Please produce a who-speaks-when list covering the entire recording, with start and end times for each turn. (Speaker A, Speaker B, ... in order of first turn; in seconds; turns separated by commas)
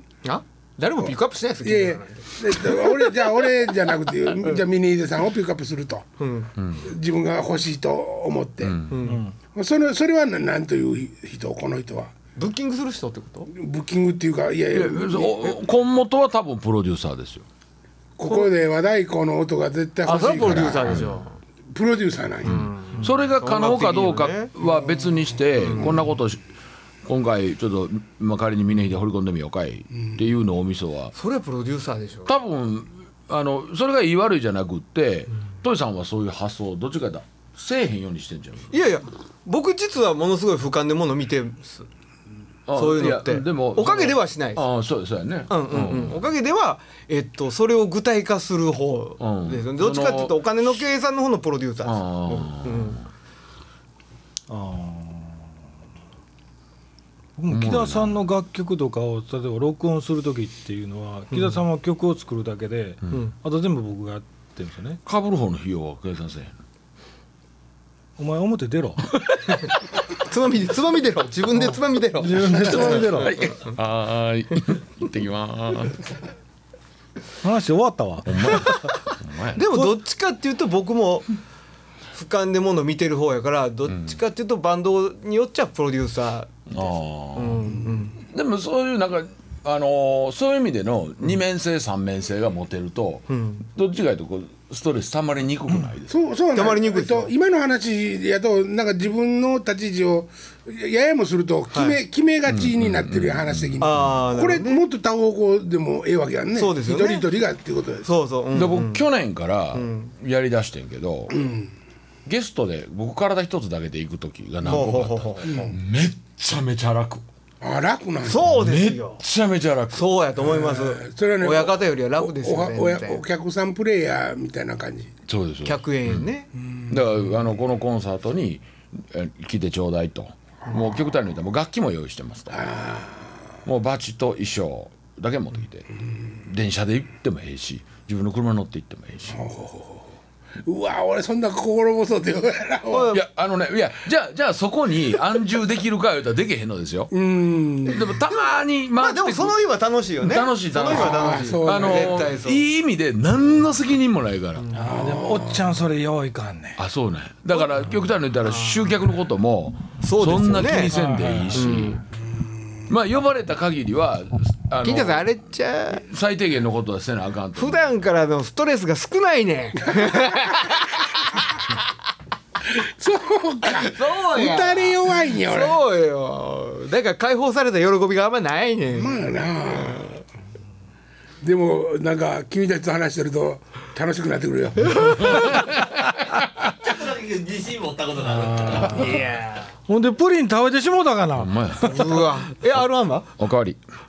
Speaker A: 0.2-3.3, Speaker B: 1.6-6.1, Speaker A: 6.2-6.5, Speaker C: 6.6-6.8, Speaker B: 6.8-8.8, Speaker C: 8.6-9.0, Speaker A: 8.9-9.2, Speaker D: 9.0-9.3, Speaker B: 9.5-12.1, Speaker A: 12.4-13.5, Speaker B: 13.5-15.6, Speaker C: 14.7-17.4, Speaker B: 18.2-21.1, Speaker A: 20.1-21.4, Speaker C: 20.4-21.1, Speaker B: 21.7-22.7, Speaker A: 22.4-24.5, Speaker C: 22.5-26.4, Speaker A: 25.6-26.0, Speaker C: 27.1-31.1, Speaker A: 31.1-32.3, Speaker C: 32.3-38.7, Speaker A: 38.7-41.9, Speaker C: 42.7-46.3, Speaker A: 42.8-44.6, Speaker A: 45.5-53.0, Speaker C: 49.2-50.4, Speaker C: 51.8-53.0, Speaker D: 54.5-55.4, Speaker D: 57.4-65.0, Speaker C: 57.5-58.2, Speaker A: 61.3-61.6, Speaker C: 65.1-66.5, Speaker D: 68.2-69.1, Speaker A: 70.2-73.8, Speaker D: 72.2-73.4, Speaker C: 72.5-76.0, Speaker D: 77.4-78.8, Speaker C: 78.3-79.9, Speaker A: 78.5-78.9, Speaker A: 79.5-81.3, Speaker A: 82.1-88.2, Speaker C: 83.9-84.2, Speaker C: 86.7-96.2, Speaker A: 93.3-93.7, Speaker B: 96.1-108.1, Speaker A: 96.5-97.3, Speaker A: 101.7-102.0, Speaker C: 102.5-104.1, Speaker A: 103.8-104.8, Speaker A: 106.6-107.3, Speaker A: 108.0-109.1, Speaker C: 108.5-111.4, Speaker A: 109.7-110.1, Speaker B: 111.3-111.7, Speaker C: 112.3-117.2, Speaker A: 114.6-115.8, Speaker B: 115.4-115.7, Speaker B: 117.6-118.5, Speaker A: 118.2-119.2, Speaker C: 118.5-120.2, Speaker A: 119.9-123.2, Speaker B: 120.4-125.1, Speaker C: 125.3-126.3, Speaker A: 125.7-126.5, Speaker C: 126.9-132.7, Speaker B: 130.7-131.1, Speaker B: 132.5-133.5, Speaker C: 133.7-135.9, Speaker C: 136.4-139.4, Speaker B: 139.3-140.1, Speaker B: 140.6-143.1, Speaker A: 142.9-143.2, Speaker C: 143.1-147.1, Speaker B: 147.1-148.1, Speaker C: 147.9-149.6, Speaker A: 148.3-152.7, Speaker C: 150.2-154.7, Speaker B: 150.9-152.3, Speaker A: 154.6-154.9, Speaker D: 154.7-156.8, Speaker B: 154.8-155.7, Speaker C: 156.8-162.0, Speaker A: 157.5-157.8, Speaker A: 158.4-159.0, Speaker A: 160.0-161.0, Speaker D: 160.9-162.0, Speaker A: 161.5-162.0, Speaker C: 162.9-165.3, Speaker A: 164.8-166.1, Speaker C: 166.1-167.9, Speaker A: 167.6-171.4, Speaker B: 170.0-170.3, Speaker B: 172.7-175.8, Speaker A: 173.7-179.2, Speaker B: 179.0-180.2, Speaker B: 181.4-185.5, Speaker C: 185.3-186.0, Speaker E: 186.7-189.3, Speaker D: 188.2-189.3, Speaker A: 188.8-189.7, Speaker D: 189.9-192.3, Speaker C: 191.4-192.1, Speaker A: 191.8-193.3, Speaker C: 193.4-193.8